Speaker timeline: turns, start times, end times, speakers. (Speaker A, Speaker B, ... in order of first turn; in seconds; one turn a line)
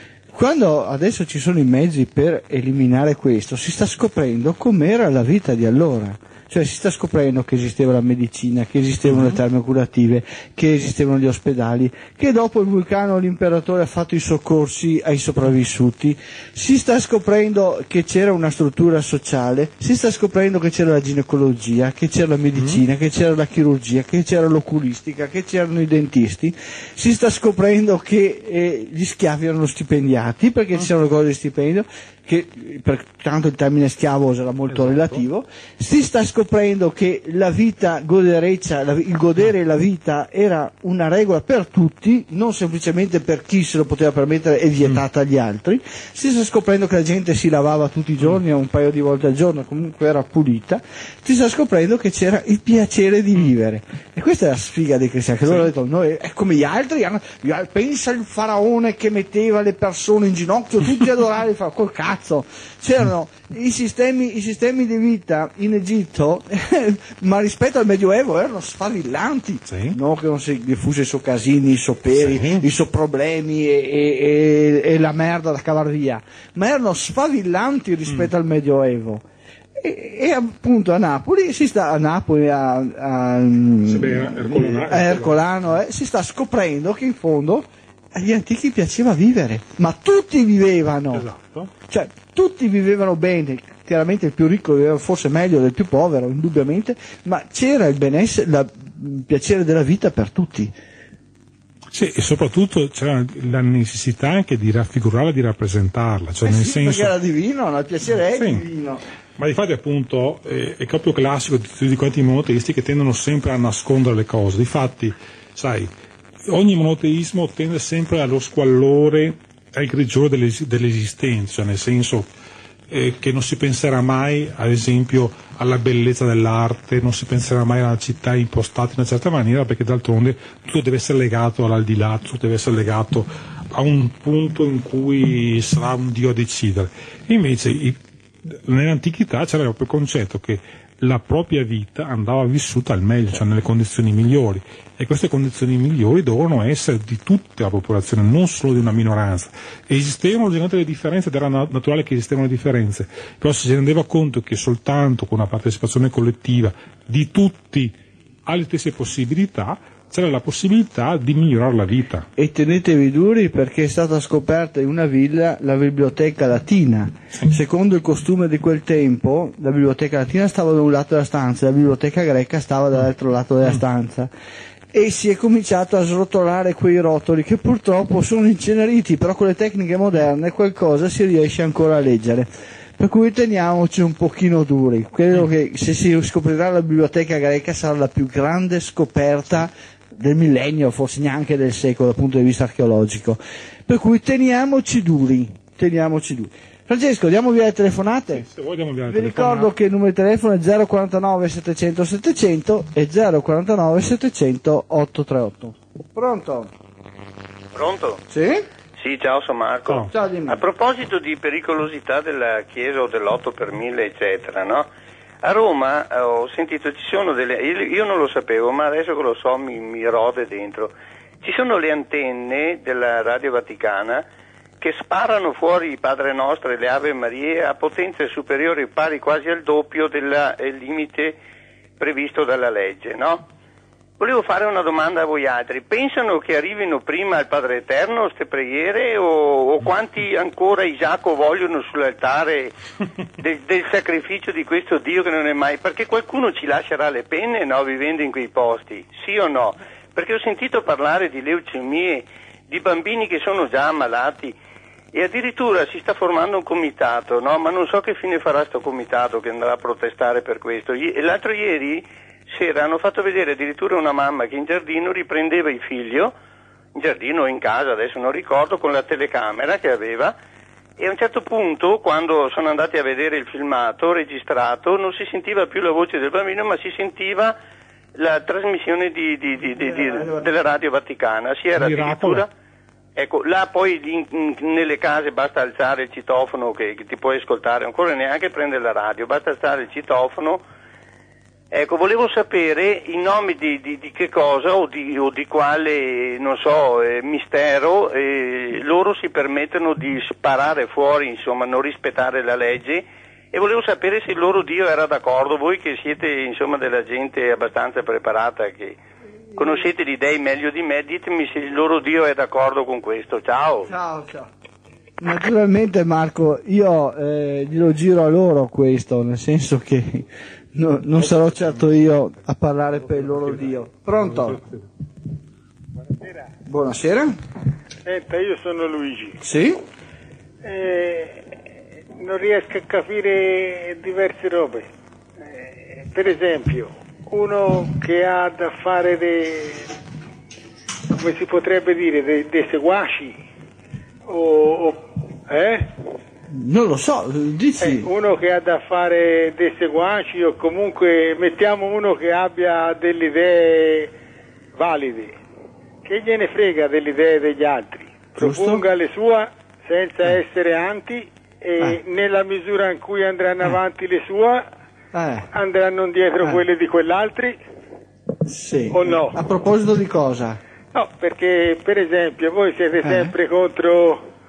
Speaker A: 0.3-79.2
Speaker B: 9.1-9.4
Speaker B: 22.6-22.8
Speaker B: 34.7-35.2
Speaker B: 69.7-70.0
Speaker B: 72.1-72.7
Speaker A: 79.8-91.3
Speaker B: 83.9-85.5
Speaker B: 91.1-91.7
Speaker A: 91.9-100.7
Speaker B: 101.9-107.1
Speaker A: 106.4-109.0
Speaker B: 108.3-108.7
Speaker B: 109.4-115.9
Speaker B: 116.5-122.3
Speaker B: 122.9-157.9
Speaker B: 158.5-162.3
Speaker A: 162.4-174.3
Speaker A: 174.9-198.4
Speaker B: 198.3-199.7
Speaker A: 199.1-206.7
Speaker C: 207.7-208.2
Speaker A: 208.3-208.7
Speaker C: 209.0-214.9
Speaker B: 209.9-210.1
Speaker A: 210.1-210.6
Speaker C: 215.4-224.2
Speaker C: 224.8-231.4
Speaker C: 232.0-233.5
Speaker C: 234.2-242.8
Speaker C: 243.4-254.6
Speaker C: 255.1-266.3
Speaker C: 267.0-270.4
Speaker C: 271.0-277.6
Speaker C: 278.2-282.5
Speaker A: 279.8-280.5
Speaker B: 281.8-282.5
Speaker C: 283.2-290.6
Speaker C: 291.7-309.0
Speaker A: 309.6-309.8
Speaker C: 309.6-313.9
Speaker A: 313.9-314.5
Speaker A: 315.2-324.6
Speaker B: 323.2-323.6
Speaker B: 324.3-324.9
Speaker A: 326.7-327.4
Speaker D: 328.1-329.4
Speaker A: 329.4-329.8
Speaker D: 330.6-331.4
Speaker D: 332.2-334.9
Speaker D: 335.4-339.9
Speaker D: 341.1-343.4
Speaker D: 344.3-345.9
Speaker A: 346.5-348.1
Speaker D: 347.8-354.1
Speaker D: 354.8-355.4
Speaker D: 356.1-364.6
Speaker A: 358.4-358.9
Speaker A: 365.1-365.5
Speaker D: 365.5-367.6
Speaker A: 368.4-370.6
Speaker D: 368.9-369.4
Speaker D: 370.9-374.2
Speaker A: 373.0-373.3